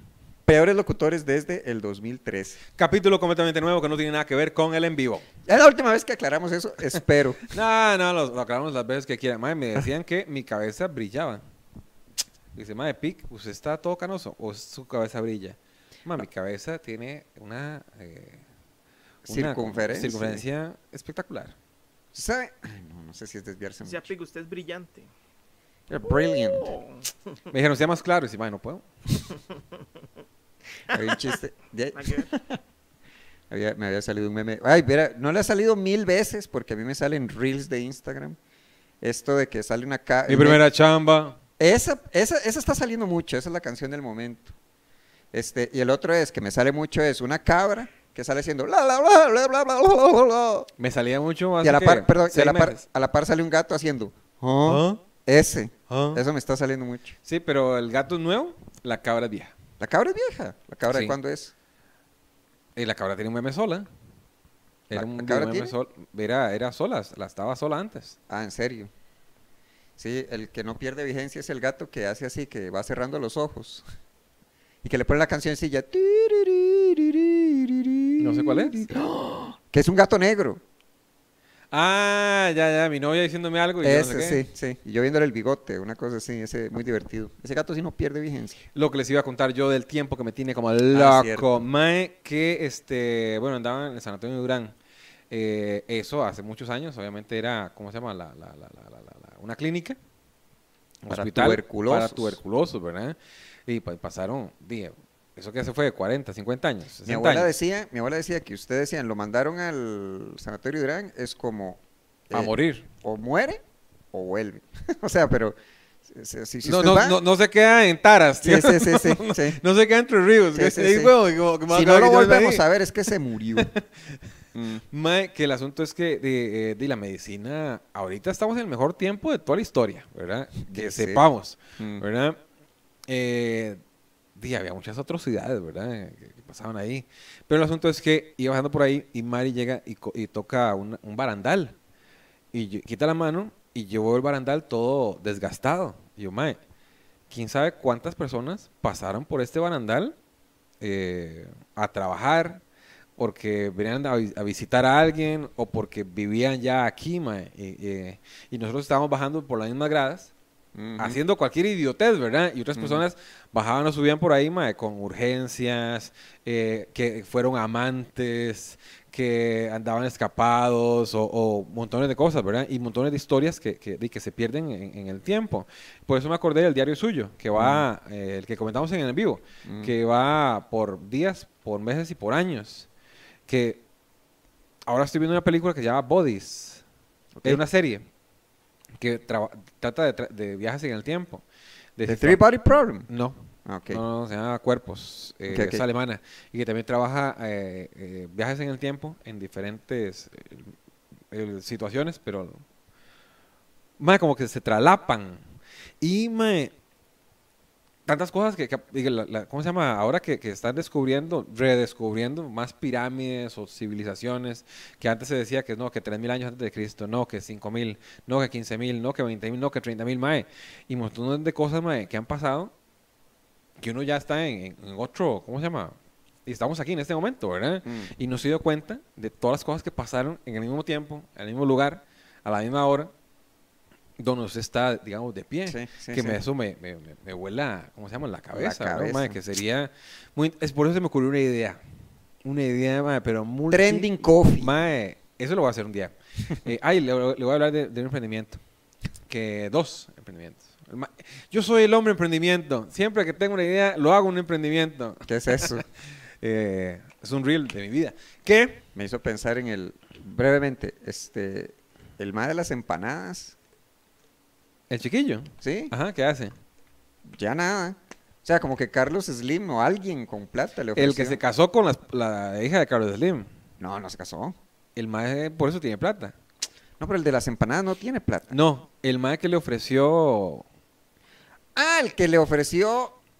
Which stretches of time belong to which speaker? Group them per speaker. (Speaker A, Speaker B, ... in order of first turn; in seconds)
Speaker A: 0.5-2.6, 5.5-7.4, 19.3-20.4, 22.1-24.1, 25.9-26.8, 30.9-32.4, 33.5-38.4, 39.0-40.6, 41.6-44.5, 45.3-50.7, 51.6-57.1, 59.8-61.5, 64.9-65.7, 68.3-68.9, 70.0-73.8, 74.8-80.6, 83.8-88.6, 90.9-91.5, 101.1-102.4, 107.0-113.6, 114.1-117.2, 118.4-119.6, 120.5-121.1, 121.7-123.7, 124.5-124.8, 130.7-131.2, 131.8-132.0, 160.7-161.2, 162.8-163.0, 177.6-177.8, 179.6-179.9, 187.3-187.6, 192.1-193.1, 193.6-194.0, 195.5-195.8, 227.8-228.1, 235.7-236.4, 238.5-239.4, 243.7-244.7, 255.2-255.8, 258.9-263.6, 265.6-265.9, 267.3-271.4, 273.8-274.6, 277.0-278.5, 281.7-283.2
Speaker B: 2.8-5.2, 7.5-11.4, 12.5-18.4, 19.2-21.6, 27.5-28.8, 40.3-41.4, 50.8-52.8, 54.6-55.0, 55.9-56.2, 57.2-59.5, 60.9-61.1, 62.8-63.9, 64.9-68.2, 78.2-78.9, 81.7-84.4, 88.7-94.7, 95.3-100.0, 101.0-107.5, 112.3-112.9, 116.6-122.6, 123.6-124.2, 124.9-132.4, 133.1-133.8, 134.3-141.8, 142.5-146.6, 147.3-150.2, 150.8-152.6, 153.2-160.3, 161.0-182.9, 183.5-183.8, 184.9-186.8, 187.4-188.1, 189.0-191.4, 192.0-192.4, 193.1-200.7, 201.3-202.6, 204.0-205.4, 206.0-206.7, 208.1-222.7, 223.8-233.1, 234.2-241.8, 242.4-248.6, 249.3-255.8, 256.4-258.8, 264.9-266.5, 270.9-273.5, 274.9-276.4, 278.5-280.6
Speaker C: 23.8-25.1, 26.1-27.1, 30.9-31.2, 31.9-32.3